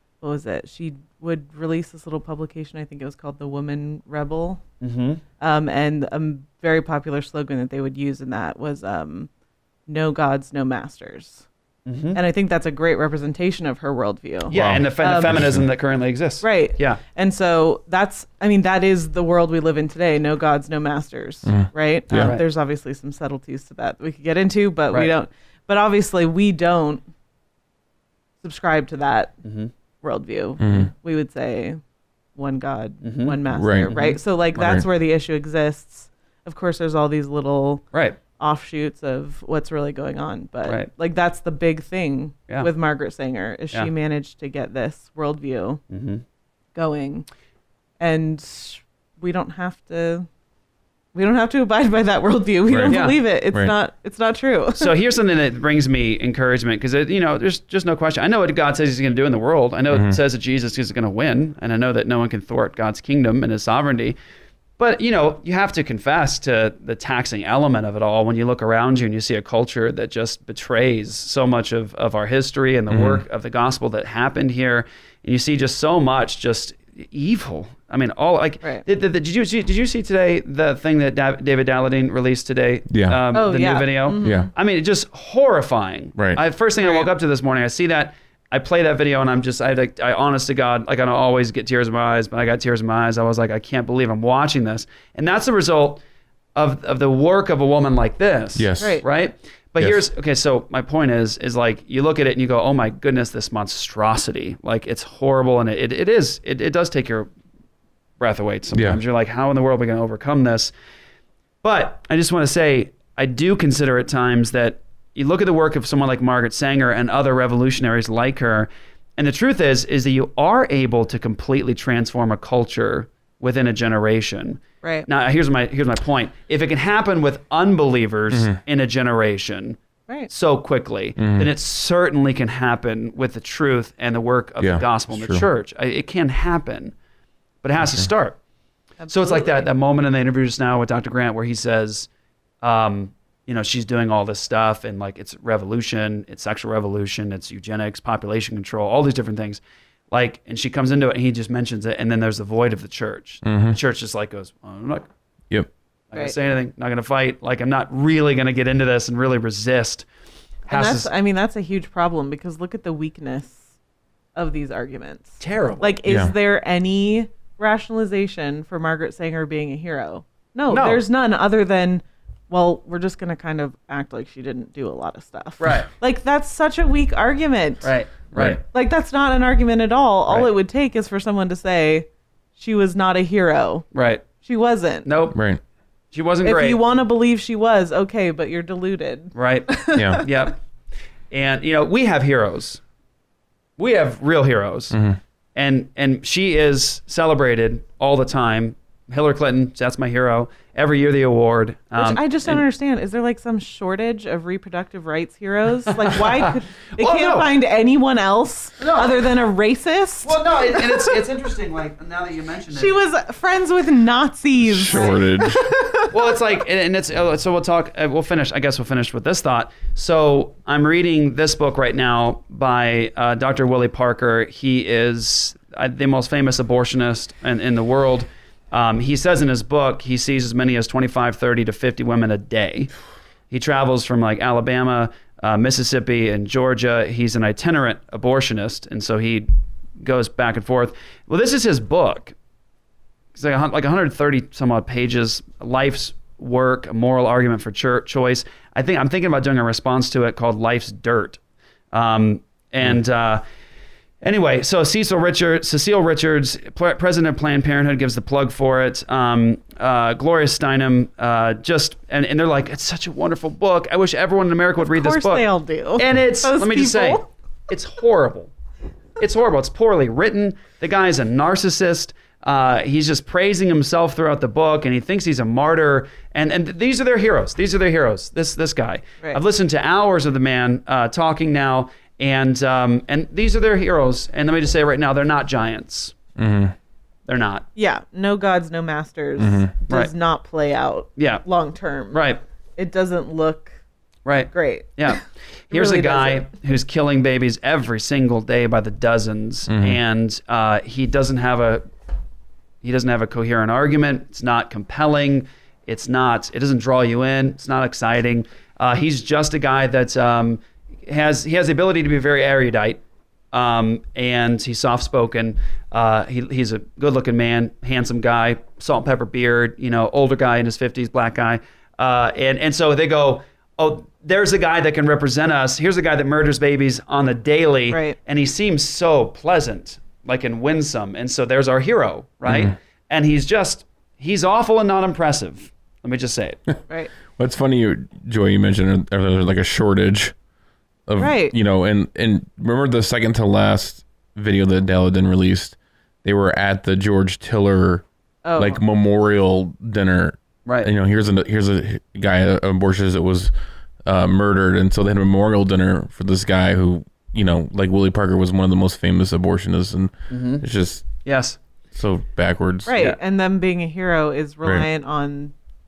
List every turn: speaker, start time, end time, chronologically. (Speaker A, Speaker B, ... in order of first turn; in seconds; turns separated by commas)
Speaker A: 0.2-4.6, Speaker B: 4.8-5.2, Speaker A: 5.4-9.3, Speaker A: 9.9-11.4, Speaker B: 11.8-12.2, Speaker A: 12.1-15.4, Speaker B: 14.5-17.0, Speaker C: 14.5-15.7, Speaker A: 16.4-27.0, Speaker C: 21.4-22.4, Speaker B: 22.1-22.4, Speaker A: 28.4-29.4, Speaker B: 29.4-29.7, Speaker A: 30.0-31.8, Speaker C: 30.6-30.9, Speaker A: 32.3-45.8, Speaker B: 33.0-33.4, Speaker C: 33.5-33.9, Speaker B: 33.9-34.2, Speaker C: 34.5-34.9, Speaker B: 37.9-38.2, Speaker B: 45.9-46.2, Speaker A: 46.7-47.3, Speaker A: 48.0-50.3, Speaker A: 51.1-54.9, Speaker C: 52.7-53.7, Speaker B: 52.9-53.2, Speaker B: 54.8-64.2, Speaker C: 59.9-60.2, Speaker B: 64.8-96.0, Speaker C: 72.9-73.2, Speaker C: 82.9-83.2, Speaker A: 83.3-84.5, Speaker C: 84.2-84.5, Speaker A: 86.8-87.1, Speaker B: 96.5-107.3, Speaker C: 98.5-98.9, Speaker A: 98.8-99.0, Speaker B: 108.2-110.7, Speaker C: 108.7-109.0, Speaker B: 111.6-136.9, Speaker C: 128.3-128.6, Speaker C: 131.2-131.5, Speaker C: 134.6-135.4, Speaker B: 137.6-138.4, Speaker C: 137.8-138.1, Speaker A: 139.0-139.6, Speaker B: 139.1-142.1, Speaker B: 142.6-155.1, Speaker C: 153.4-153.8, Speaker B: 156.1-160.1, Speaker B: 160.7-161.1, Speaker A: 160.7-163.7, Speaker A: 164.3-177.9, Speaker B: 165.4-166.0, Speaker C: 166.1-166.3, Speaker B: 170.7-171.0, Speaker B: 175.6-175.9, Speaker B: 177.8-178.6, Speaker C: 178.3-178.6, Speaker A: 178.6-183.8, Speaker B: 183.9-184.2, Speaker A: 184.4-185.1, Speaker B: 185.0-185.4, Speaker C: 185.3-185.6, Speaker B: 186.1-186.8, Speaker A: 186.4-190.2, Speaker B: 189.3-190.6, Speaker C: 189.9-190.2, Speaker B: 191.3-192.8, Speaker B: 193.8-195.0, Speaker C: 194.9-195.2, Speaker B: 195.5-202.6, Speaker A: 201.9-211.0, Speaker B: 206.1-207.5, Speaker B: 208.8-209.2, Speaker B: 210.2-213.0, Speaker A: 212.7-216.1, Speaker C: 214.7-215.6, Speaker B: 214.9-215.1, Speaker B: 216.1-232.9, Speaker B: 233.5-239.5, Speaker B: 240.0-242.3, Speaker B: 243.3-251.4, Speaker B: 251.9-253.4, Speaker B: 254.2-268.5, Speaker A: 264.8-267.2, Speaker B: 269.2-286.1, Speaker C: 286.4-286.7, Speaker B: 287.3-287.7, Speaker A: 287.7-293.8, Speaker C: 289.4-289.7, Speaker B: 291.2-291.4, Speaker B: 292.1-292.4, Speaker B: 294.2-301.8, Speaker A: 294.5-296.4, Speaker C: 299.7-300.0, Speaker B: 302.8-336.6, Speaker A: 327.9-328.1, Speaker C: 332.5-332.7, Speaker C: 337.2-340.3, Speaker C: 341.1-348.1, Speaker A: 341.1-341.5, Speaker A: 348.4-348.8, Speaker C: 348.6-353.5, Speaker B: 350.6-350.9, Speaker C: 354.0-360.1, Speaker B: 360.3-360.6, Speaker C: 360.6-361.1, Speaker B: 361.2-361.6, Speaker C: 361.9-362.9, Speaker A: 362.9-365.5